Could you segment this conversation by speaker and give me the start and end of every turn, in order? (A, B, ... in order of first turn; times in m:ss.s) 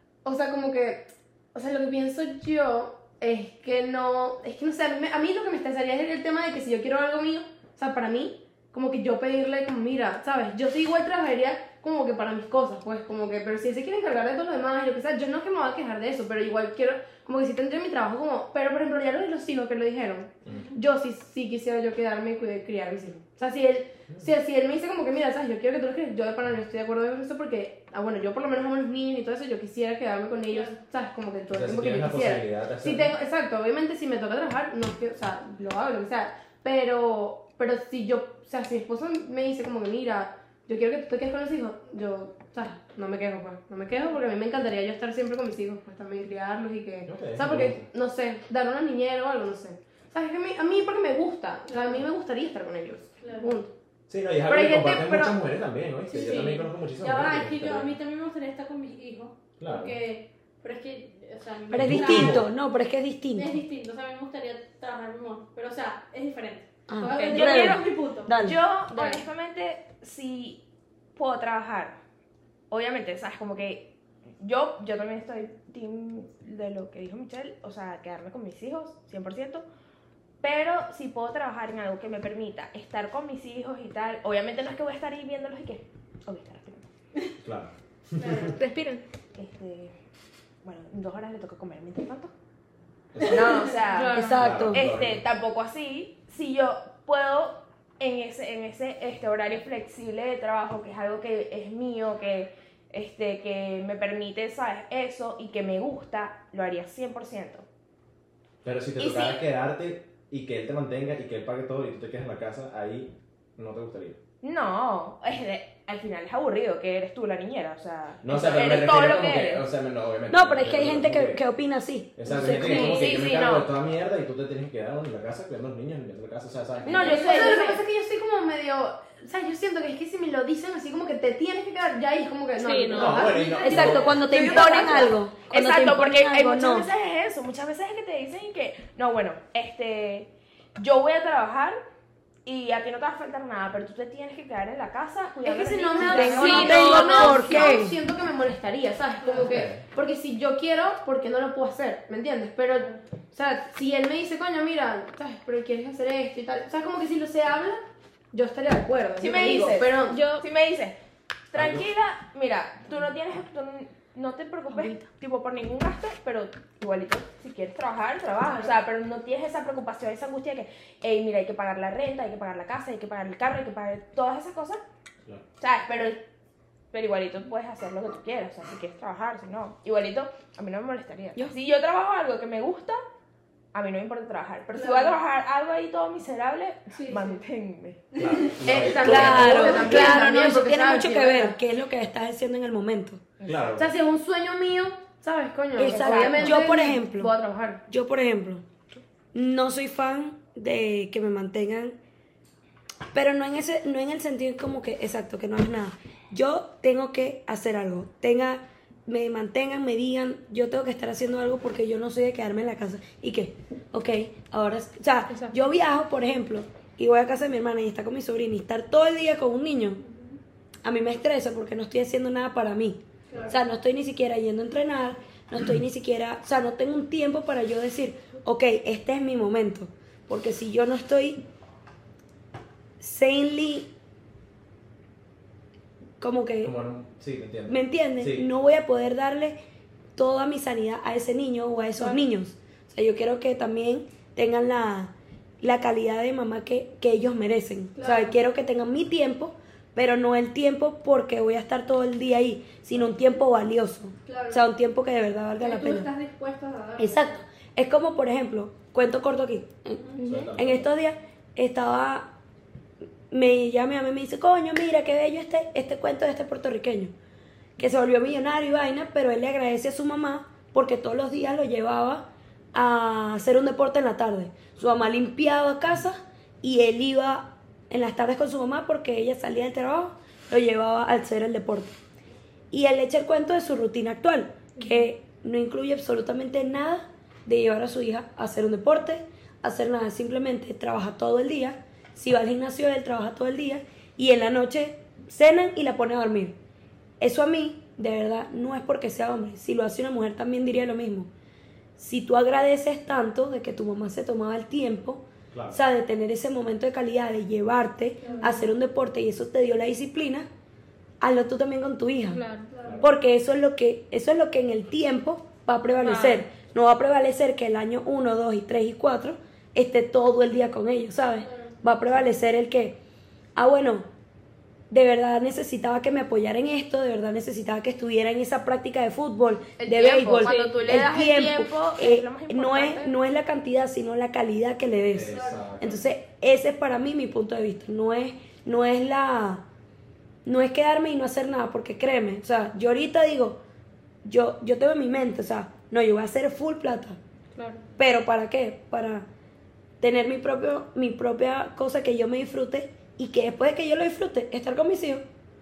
0:00.2-0:53.7 A
0:20.5-0:20.8 B
0:30.5-0:30.8 B
0:31.5-0:33.2 C
0:47.1-0:47.9 C
0:51.7-0:52.0 B
0:53.2-0:53.5 B
0:54.1-0:58.0 C
0:54.4-0:55.4 A
0:56.1-1:02.5 B
0:59.6-1:00.0 C
1:01.7-1:03.6 D
1:01.7-1:02.5 C
1:03.4-1:08.4 B
1:06.9-1:08.6 D
1:07.1-1:07.5 E
1:07.3-1:10.6 F
1:08.9-1:09.2 E
1:11.2-1:12.0 F
1:12.7-1:19.7 F
1:20.4-1:26.8 F
1:27.4-1:28.6 C
1:28.2-1:28.6 B
1:28.6-1:29.0 E
1:29.4-1:29.9 F
1:30.6-1:32.3 F
1:33.1-1:33.7 C
1:33.2-1:47.6 F
1:33.9-1:34.4 A
1:34.1-1:34.8 D
1:34.3-1:35.2 C
1:48.6-1:54.2 C
1:54.4-1:59.6 F
1:58.2-2:01.4 C
2:00.3-2:03.0 D
2:02.2-2:07.3 C
2:02.5-2:03.7 F
2:02.6-2:03.1 E
2:06.9-2:07.8 F
2:06.9-2:15.2 A
2:07.1-2:07.6 B
2:12.6-2:13.3 E
2:12.9-2:14.2 C
2:13.2-2:14.3 B
2:13.6-2:16.9 D
2:14.4-2:21.8 F
2:22.4-2:26.9 F
2:25.4-2:37.8 A
2:26.0-2:28.0 D
2:26.4-2:27.7 E
2:29.2-2:29.5 B
2:29.4-2:29.8 C
2:38.3-2:40.3 A
2:39.2-2:41.0 F
2:40.1-2:40.5 E
2:41.5-2:54.8 F
2:41.5-2:41.9 C
2:55.6-2:56.2 F
2:56.9-3:03.0 F
3:03.7-3:08.0 F
3:04.7-3:05.2 B
3:06.9-3:07.4 B
3:08.2-3:09.8 C
3:08.2-3:08.6 B
3:08.6-3:11.6 A
3:09.0-3:13.2 D
3:13.4-3:13.7 F
3:13.5-3:13.9 C
3:13.8-3:17.8 A
3:15.8-3:17.3 D
3:15.9-3:16.7 F
3:17.9-3:18.6 D
3:19.3-3:22.0 D
3:23.1-3:40.0 D
3:35.3-3:35.6 E
3:40.0-3:40.4 B
3:40.8-3:51.4 D
3:43.3-3:43.6 B
3:53.0-3:53.9 D
3:56.2-3:56.7 D
3:56.6-3:58.5 C
3:57.7-3:59.6 D
4:00.2-4:16.1 D
4:08.0-4:08.4 B
4:14.3-4:14.6 B
4:15.6-4:17.4 B
4:17.0-4:22.3 D
4:20.0-4:20.4 B
4:20.2-4:20.9 C
4:23.3-4:27.1 D
4:27.8-4:42.0 D
4:42.7-4:56.6 D
4:57.2-5:01.3 D
5:02.0-5:10.5 D
5:05.5-5:05.8 C
5:08.2-5:08.7 B
5:11.2-5:12.4 D
5:12.3-5:12.7 E
5:12.7-5:13.1 B
5:13.0-5:23.0 D
5:16.0-5:16.4 E
5:21.4-5:21.7 B
5:23.6-5:24.1 D
5:24.9-5:39.6 D
5:29.8-5:33.1 F
5:30.3-5:30.8 E
5:35.1-5:36.0 C
5:35.3-5:35.7 B
5:40.4-5:43.6 D
5:44.2-5:47.2 D
5:47.6-5:47.8 E
5:48.0-5:49.3 D
5:50.0-5:55.2 D